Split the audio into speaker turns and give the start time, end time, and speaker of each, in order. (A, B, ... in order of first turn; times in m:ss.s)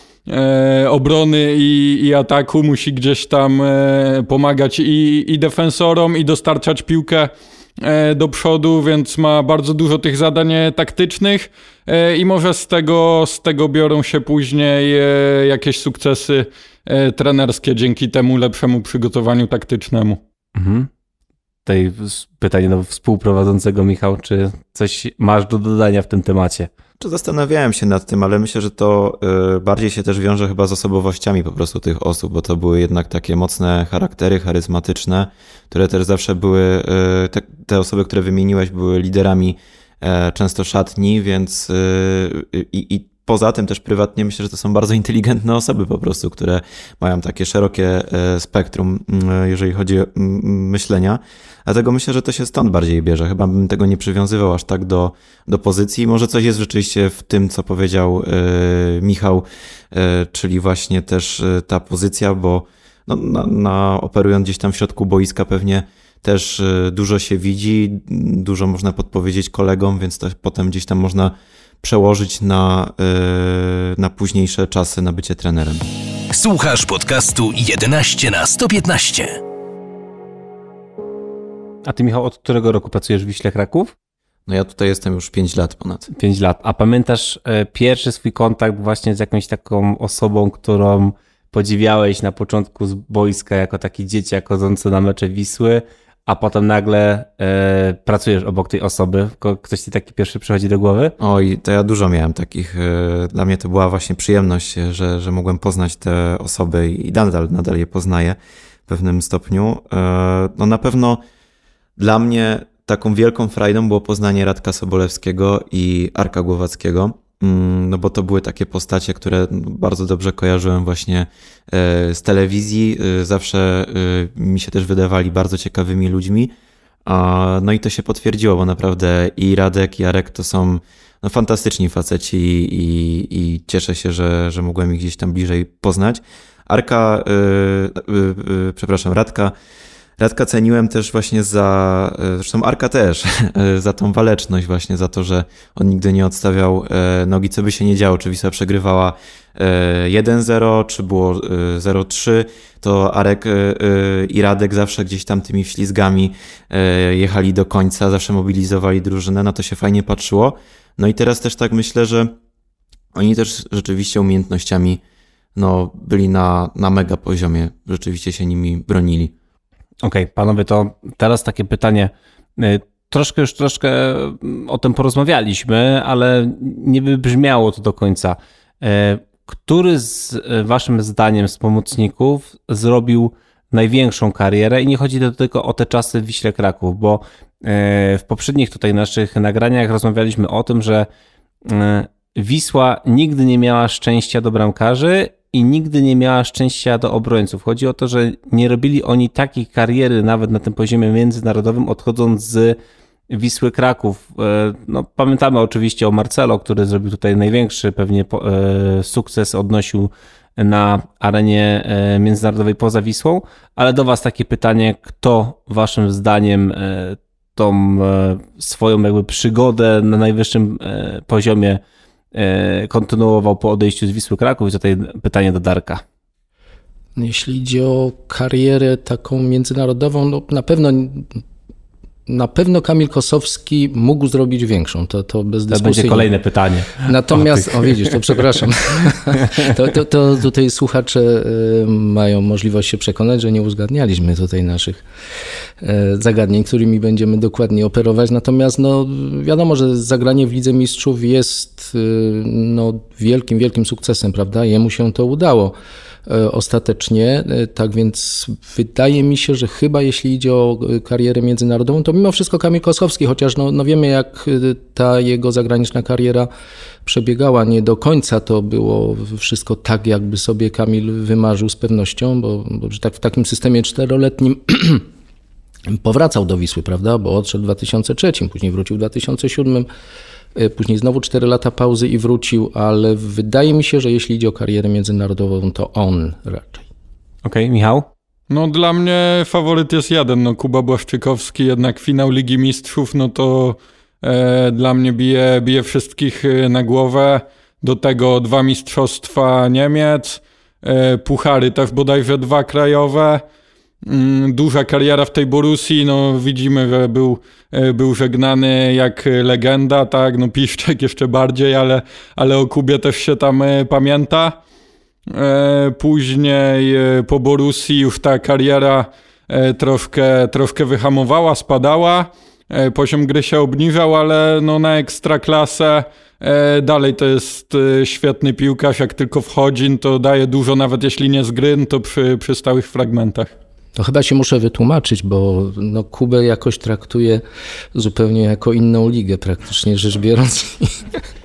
0:00.3-0:20.2 A
0:20.6-0:20.9 B
0:21.7-0:26.7 B
0:27.0-1:15.8 C
1:16.3-1:19.4 D
1:21.8-1:23.9 B
1:24.5-1:26.1 C
1:26.1-1:41.1 B
1:41.2-1:51.2 C
1:52.0-2:06.5 C
2:07.1-2:19.5 C
2:20.2-2:42.4 C
2:43.1-2:45.0 C
2:45.6-2:49.3 C
2:50.0-3:11.1 B
3:11.7-3:22.8 B
3:23.3-3:41.8 B
3:42.3-3:46.0 B
3:47.2-3:51.4 E
3:52.3-3:56.3 E
3:55.7-3:58.0 B
3:57.0-4:05.0 E
4:05.8-4:15.8 E
4:16.3-4:26.5 E
4:27.0-4:35.0 E
4:35.9-4:39.9 E
4:40.6-4:46.9 E
4:47.4-4:48.1 B
4:48.5-5:03.4 A
5:04.0-5:14.6 A
5:15.3-5:33.5 A
5:34.0-5:37.4 E
5:37.9-5:41.2 E